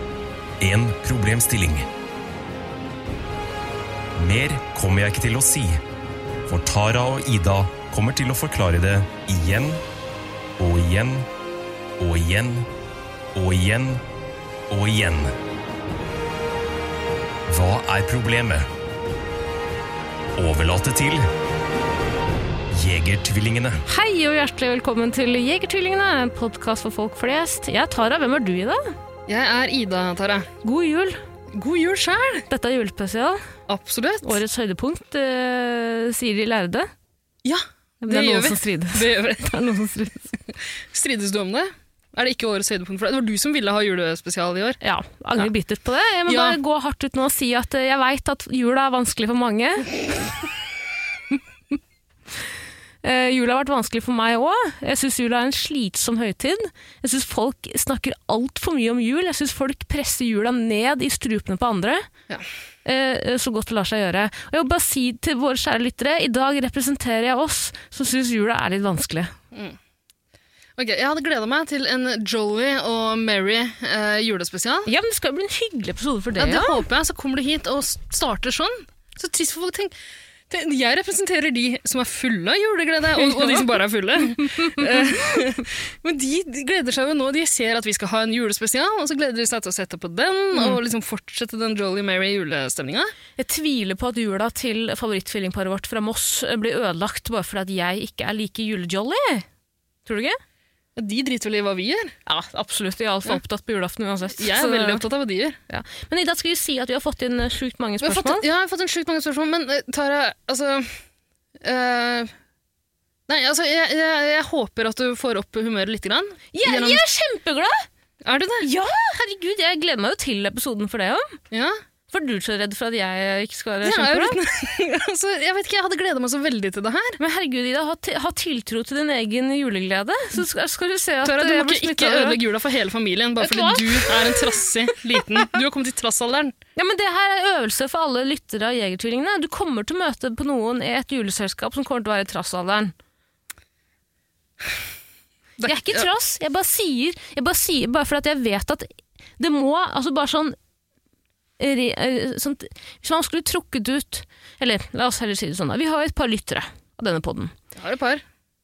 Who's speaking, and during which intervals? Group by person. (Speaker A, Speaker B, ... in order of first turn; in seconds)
Speaker A: 0.6-1.9, 4.2-5.8, 6.5-9.8, 10.6-11.3, 12.0-12.7, 13.3-14.0, 14.7-15.3, 17.5-18.7, 20.4-21.2, 22.7-23.8
Speaker B: 23.9-28.9, 30.6-31.2, 32.5-33.4, 34.2-36.9, 38.0-40.3, 44.8-50.3, 53.0-62.1, 62.8-69.3, 74.8-76.8, 83.2-83.7, 84.4-85.0, 93.4-99.4, 100.0-100.4, 102.2-105.0, 105.7-108.4, 116.5-117.8, 118.6-121.4, 122.1-124.4, 127.2-132.4, 133.4-134.7, 136.8-142.9, 145.6-150.6, 151.6-157.5
Speaker C: 29.3-30.5, 31.5-32.5, 33.7-34.4, 37.4-39.8, 40.5-44.8, 46.3-46.6, 69.5-69.8, 70.8-74.9, 76.4-79.9, 80.5-93.1, 101.0-102.2, 104.3-105.6, 108.0-111.0, 111.6-112.3, 113.3-117.0, 118.2-118.7, 121.5-121.8, 123.8-127.2, 131.2-136.5, 145.6-146.1, 157.8-158.2